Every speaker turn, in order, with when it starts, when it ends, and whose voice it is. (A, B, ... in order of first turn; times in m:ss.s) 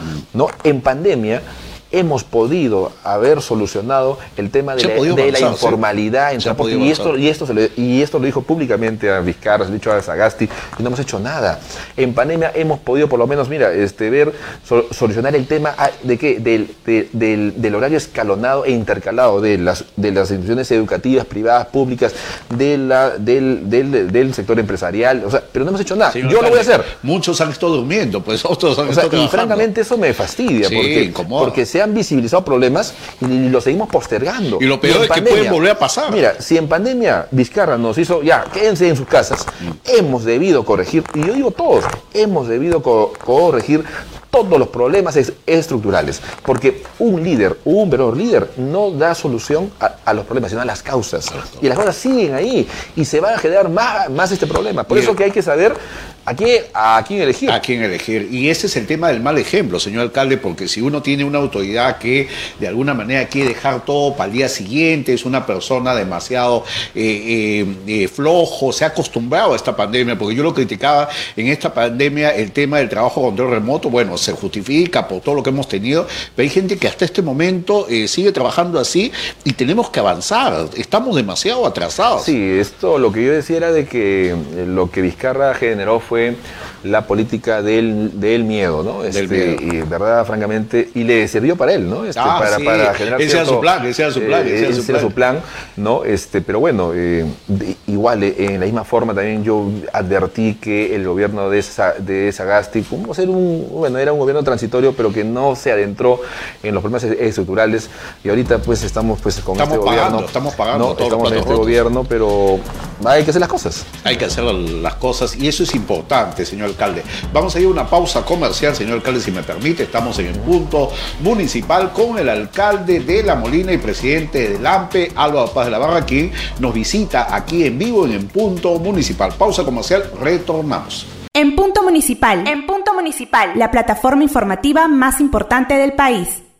0:00.3-0:26.9 A
0:04.8-0:05.8 B
0:06.4-0:07.1 B
0:26.1-0:29.7 B
0:28.8-0:57.6 A
0:30.6-0:31.6 B
0:34.6-0:36.2 B
0:54.9-0:55.1 B
0:57.5-1:22.3 B
1:22.2-1:54.0 A
1:29.1-1:29.6 B
1:32.1-1:35.1 B
1:49.6-1:51.8 B
1:54.0-2:11.0 B
2:11.4-2:16.4 C